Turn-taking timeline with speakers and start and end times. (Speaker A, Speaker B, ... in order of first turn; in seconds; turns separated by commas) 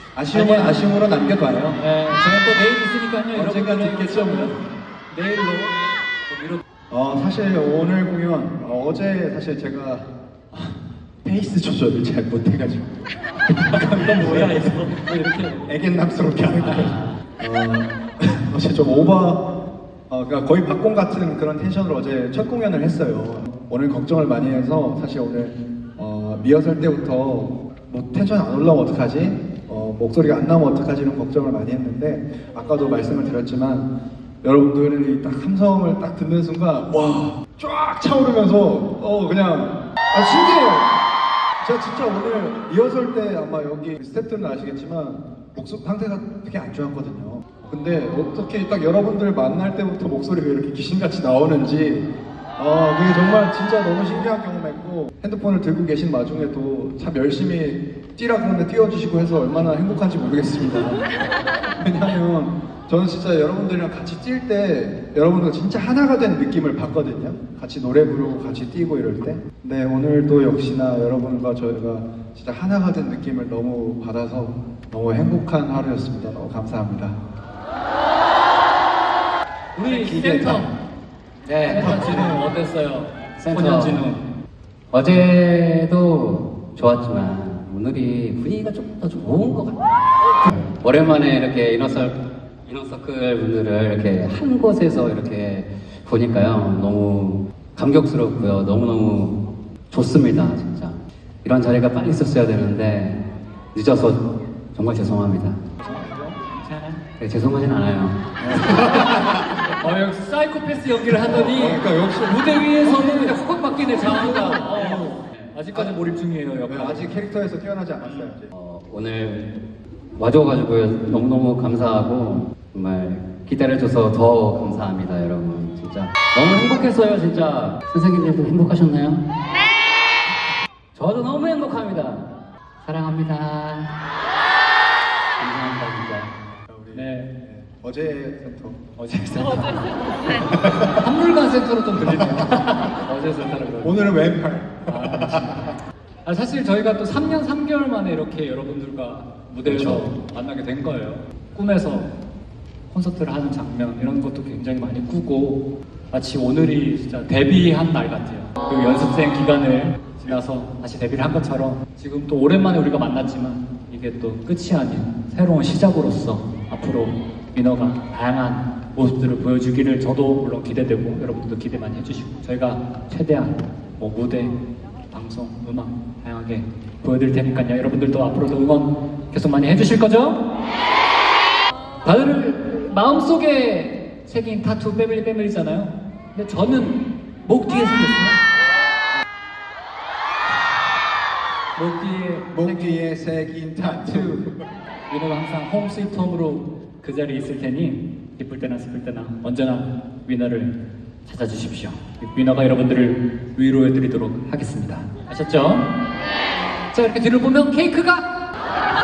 Speaker A: 0.1-1.8, Speaker B: 0.3-0.9, Speaker B: 1.8-6.6, Speaker A: 3.3-4.6, Speaker A: 6.9-14.8, Speaker B: 13.7-15.6, Speaker A: 15.7-19.4, Speaker B: 16.6-17.1, Speaker A: 20.1-33.9, Speaker A: 34.4-40.9, Speaker A: 41.6-61.0, Speaker A: 61.8-77.2, Speaker B: 79.8-80.7, Speaker A: 79.8-80.7, Speaker C: 81.4-82.2, Speaker B: 81.7-84.2, Speaker A: 81.7-82.4, Speaker C: 83.4-84.0, Speaker C: 84.9-89.9, Speaker C: 90.5-99.4, Speaker C: 99.9-105.7, Speaker A: 105.8-106.4, Speaker B: 106.5-107.0, Speaker C: 107.2-108.2, Speaker A: 108.4-109.5, Speaker B: 108.7-117.2, Speaker A: 111.1-115.1, Speaker C: 114.3-115.5, Speaker A: 115.7-116.0, Speaker A: 116.7-118.5, Speaker B: 118.0-118.3, Speaker C: 118.5-119.5, Speaker C: 120.2-129.3, Speaker C: 130.9-132.3, Speaker C: 132.8-133.9, Speaker C: 135.4-136.3, Speaker A: 136.7-138.8, Speaker B: 136.9-137.3, Speaker B: 139.0-144.1, Speaker A: 140.4-141.0, Speaker A: 142.0-142.5, Speaker A: 143.8-145.7, Speaker B: 144.9-145.7, Speaker B: 146.2-152.1, Speaker A: 149.6-150.1, Speaker B: 152.9-174.6, Speaker B: 175.1-180.5, Speaker B: 182.0-188.4, Speaker B: 191.8-193.0, Speaker A: 192.5-194.6, Speaker B: 193.8-194.4, Speaker B: 195.1-200.8, Speaker B: 201.3-205.9, Speaker B: 206.9-208.3